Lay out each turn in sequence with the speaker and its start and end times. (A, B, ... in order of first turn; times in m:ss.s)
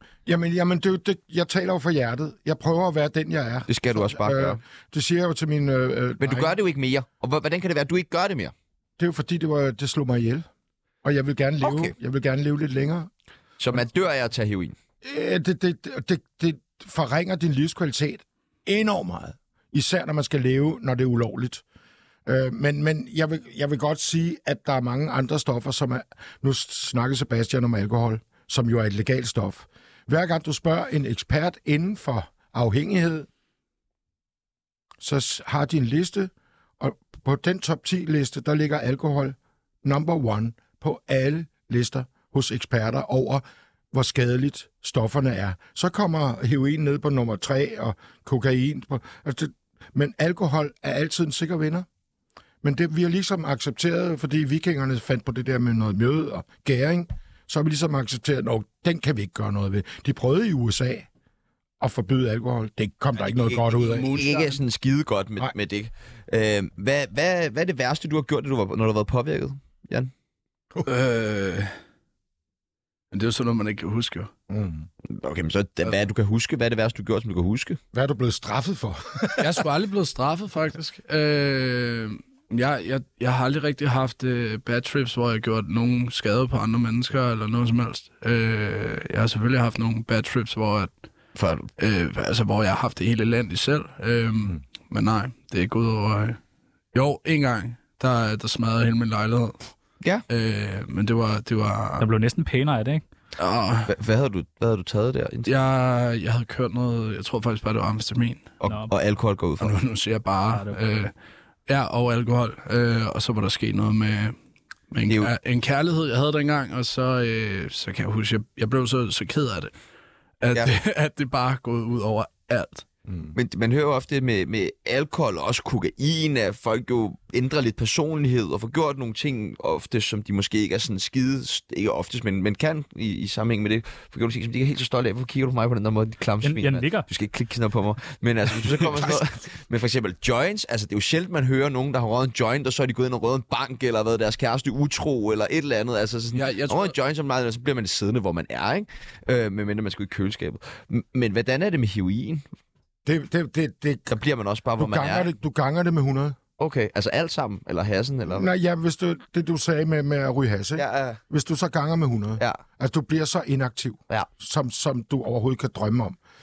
0:00.3-0:06.5 A
0:03.7-0:04.6 B
0:06.2-0:08.5 B
0:09.0-0:10.5 A
0:11.0-0:13.1 A
0:11.6-0:11.9 B
0:13.6-0:14.8 B
0:15.0-0:21.6 A
0:22.3-0:33.3 A
0:35.0-0:51.9 A
0:52.6-1:01.1 A
1:01.8-1:04.2 A
1:03.6-1:04.6 C
1:04.1-1:10.1 B
1:10.8-1:11.7 C
1:13.1-1:14.3 C
1:14.5-1:14.9 A
1:15.1-1:17.8 B
1:17.9-1:19.6 A
1:19.4-1:30.9 C
1:31.4-1:31.7 B
1:31.8-1:36.4 C
1:36.9-1:39.7 C
1:40.3-1:42.1 C
1:42.0-1:43.0 D
1:43.4-1:43.9 C
1:43.9-1:45.5 B
1:45.4-1:48.5 C
1:48.6-1:49.8 B
1:49.6-1:51.1 C
1:50.5-1:50.8 D
1:51.7-1:54.4 C
1:54.9-1:59.7 C
1:55.1-1:55.3 B
2:00.4-2:02.8 C
2:03.3-2:32.4 B
2:16.4-2:17.1 D
2:26.3-2:27.0 C
2:33.1-2:34.1 A
2:34.1-2:35.3 B
2:34.8-2:36.4 A
2:36.6-2:38.5 B
2:38.3-2:46.2 A
2:40.8-2:41.2 B